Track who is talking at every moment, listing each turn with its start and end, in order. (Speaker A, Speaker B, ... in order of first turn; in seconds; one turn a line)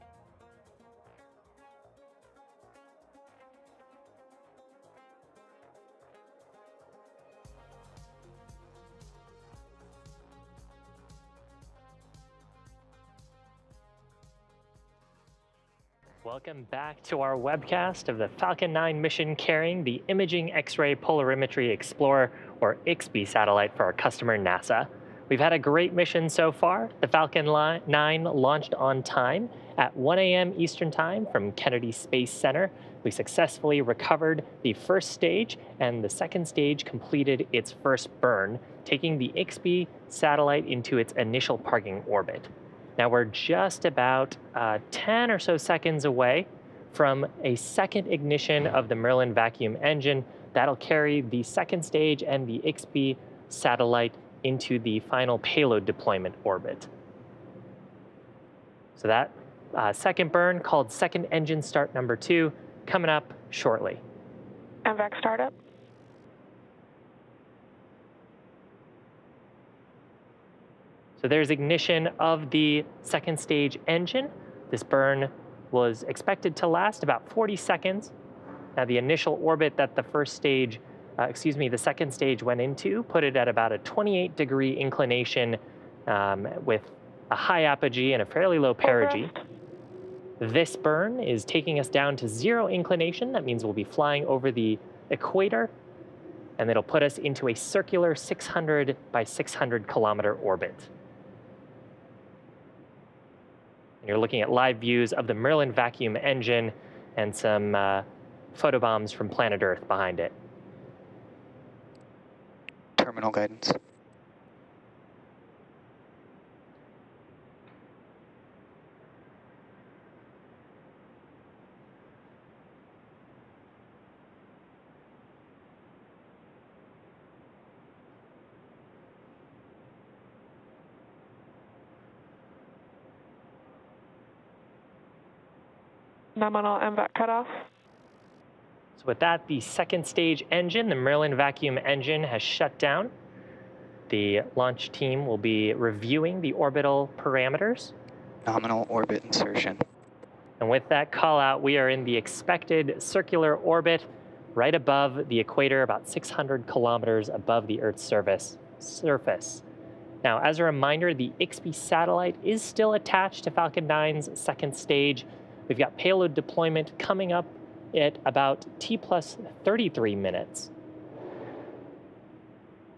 Speaker A: 16.2-56.9
Speaker A: 59.0-64.0
Speaker B: 64.9-65.5
Speaker A: 71.2-78.1
Speaker A: 78.8-89.3
Speaker B: 88.8-89.4
Speaker A: 90.4-95.7
Speaker A: 96.6-100.9
Speaker A: 104.0-110.3
Speaker C: 113.0-113.8
Speaker B: 136.4-137.7
Speaker A: 139.0-143.1
Speaker A: 144.1-147.9
Speaker C: 148.4-149.8
Speaker A: 150.6-159.6
Speaker A: 160.2-170.7